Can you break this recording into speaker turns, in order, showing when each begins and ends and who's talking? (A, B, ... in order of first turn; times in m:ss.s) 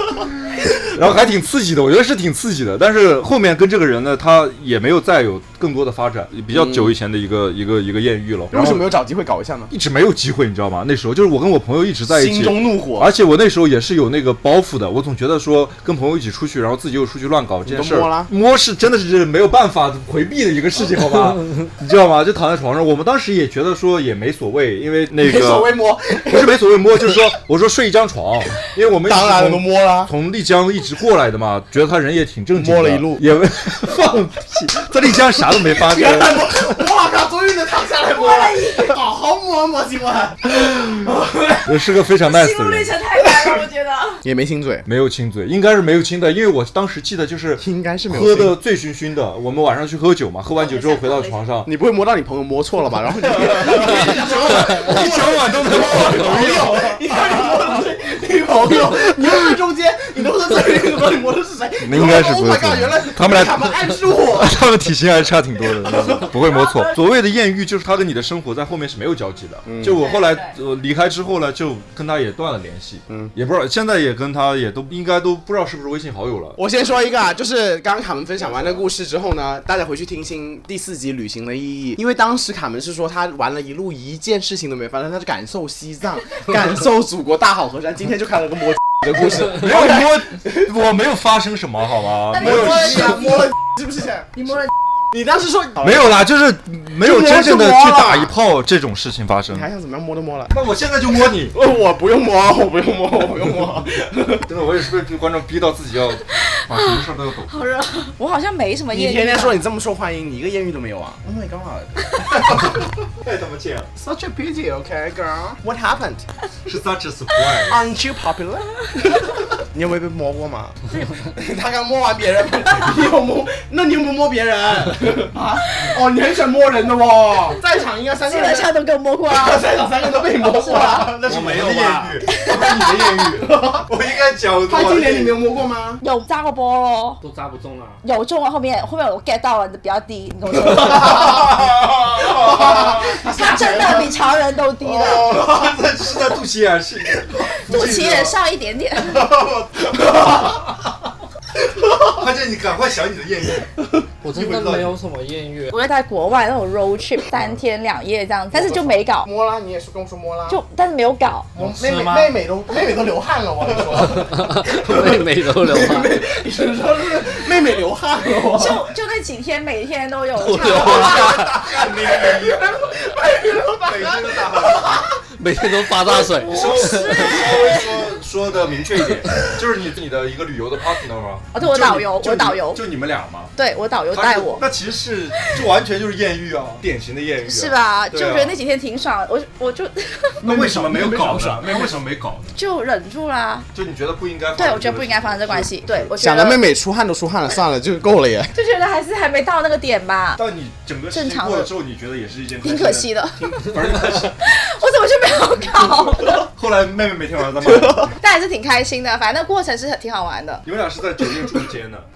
0:00.8-0:08.8 A
0:08.5-0:09.7 B
0:09.7-0:25.7 A
0:12.1-0:13.1 B
0:17.6-0:18.3 B
0:25.2-0:26.6 B
0:26.2-0:36.8 A
0:29.0-0:30.1 B
0:32.6-0:33.2 B
0:35.7-0:41.7 B
0:38.1-0:39.0 C
0:41.6-0:42.9 A
0:42.2-0:44.2 C
0:44.2-0:44.8 B
0:44.8-0:51.7 A
0:47.6-0:48.6 B
0:50.5-0:51.4 C
0:51.6-1:04.6 B
0:53.2-0:57.4 A
1:01.8-1:03.8 A
1:04.3-1:16.6 A
1:05.9-1:06.3 B
1:06.5-1:06.9 C
1:09.6-1:10.0 B
1:10.0-1:10.5 C
1:13.1-1:13.3 B
1:16.6-1:30.5 B
1:29.2-1:33.4 A
1:32.4-1:34.6 B
1:35.1-1:36.2 B
1:35.8-1:39.7 A
1:37.0-1:38.3 B
1:39.5-1:40.5 B
1:40.5-1:41.5 A
1:41.3-1:44.4 B
1:44.4-1:47.6 A
1:46.7-1:49.6 C
1:48.9-1:52.6 B
1:52.4-1:53.9 A
1:54.0-1:56.2 B
1:56.6-1:57.8 A
1:57.6-2:11.1 B
2:08.3-2:09.9 C
2:10.4-2:11.1 C
2:10.7-2:15.3 A
2:11.2-2:12.2 D
2:12.4-2:13.3 C
2:13.2-2:13.8 B
2:14.7-2:16.0 B
2:16.0-2:17.2 C
2:17.2-2:18.0 D
2:18.0-2:21.5 C
2:21.0-2:23.2 A
2:22.4-2:24.1 B
2:22.6-2:25.4 C
2:24.9-2:28.3 A
2:25.0-2:25.6 B
2:27.6-2:29.3 C
2:29.0-2:31.0 A
2:31.9-2:35.0 A
2:34.2-2:35.7 D
2:35.7-2:39.3 C
2:38.5-2:40.6 B
2:40.5-2:41.5 C
2:41.5-2:48.8 B
2:41.6-2:42.3 D
2:44.0-2:46.1 D
2:48.5-2:51.5 C
2:50.4-2:51.6 D
2:50.9-2:55.1 B
2:51.0-2:52.7 A
2:53.8-2:55.0 A
2:55.4-2:57.3 D
2:56.1-2:57.9 C
2:56.4-3:03.5 A
3:01.5-3:02.8 C
3:03.6-3:04.6 C
3:04.1-3:08.6 A
3:07.4-3:10.4 C
3:10.4-3:11.9 B
3:10.4-3:12.5 A
3:12.6-3:13.7 C
3:13.7-3:16.1 A
3:14.6-3:16.6 C
3:16.2-3:18.5 B
3:18.5-3:20.4 C
3:20.4-3:24.3 A
3:21.1-3:21.7 C
3:22.6-3:26.5 C
3:26.2-3:28.1 A
3:28.2-3:30.6 C
3:30.6-3:32.1 A